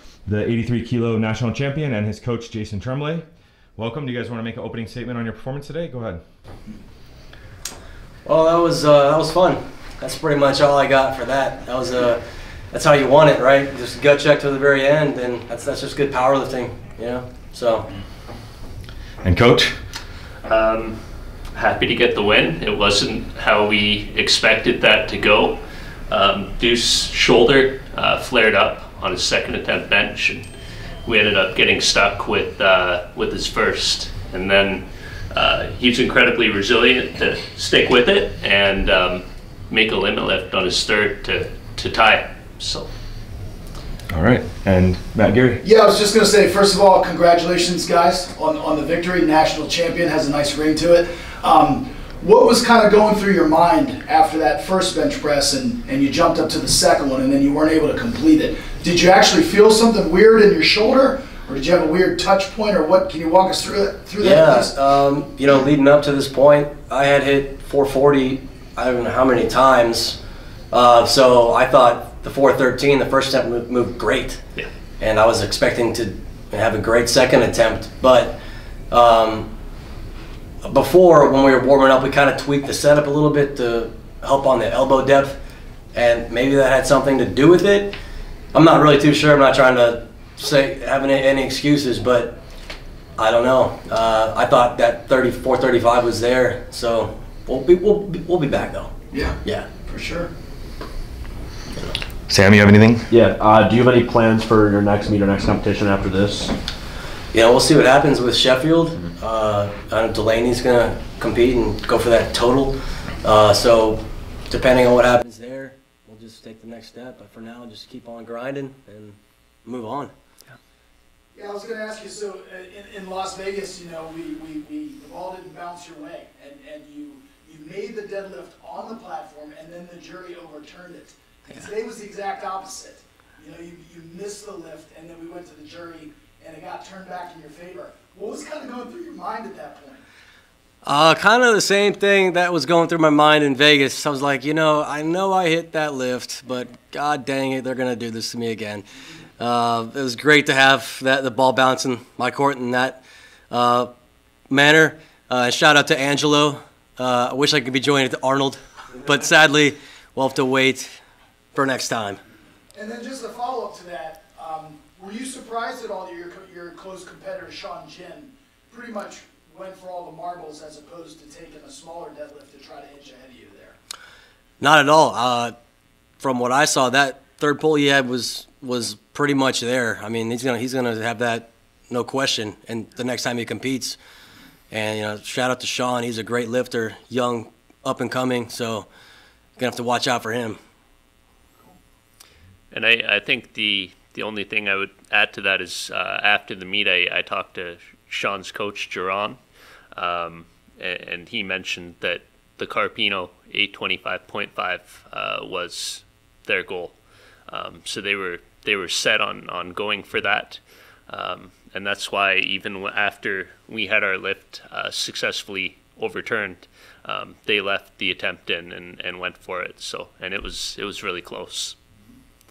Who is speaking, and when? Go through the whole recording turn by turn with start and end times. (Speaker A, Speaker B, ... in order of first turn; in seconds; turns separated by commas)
Speaker A: 0.2-3.2, Speaker A: 3.8-6.2, Speaker B: 8.2-17.9, Speaker A: 19.2-19.8, Speaker C: 20.4-25.6, Speaker C: 26.1-30.4, Speaker C: 31.0-42.9, Speaker A: 44.1-45.6, Speaker D: 45.6-64.7, Speaker B: 64.2-70.2, Speaker B: 70.7-74.4, Speaker B: 75.0-78.4, Speaker B: 78.9-79.5, Speaker B: 80.6-85.3, Speaker B: 85.9-87.9, Speaker B: 88.5-92.3, Speaker B: 93.2-99.7, Speaker D: 99.1-100.3, Speaker A: 102.3-103.1, Speaker E: 103.1-106.5, Speaker B: 107.3-120.1, Speaker D: 121.3-140.0, Speaker B: 140.8-148.9, Speaker B: 149.4-153.9, Speaker B: 154.5-160.9, Speaker B: 161.5-162.2, Speaker D: 162.7-173.8, Speaker B: 174.6-175.5, Speaker B: 176.2-184.0, Speaker B: 184.7-188.9, Speaker B: 189.6-190.6, Speaker C: 192.7-199.4, Speaker C: 199.9-206.9, Speaker C: 207.5-221.8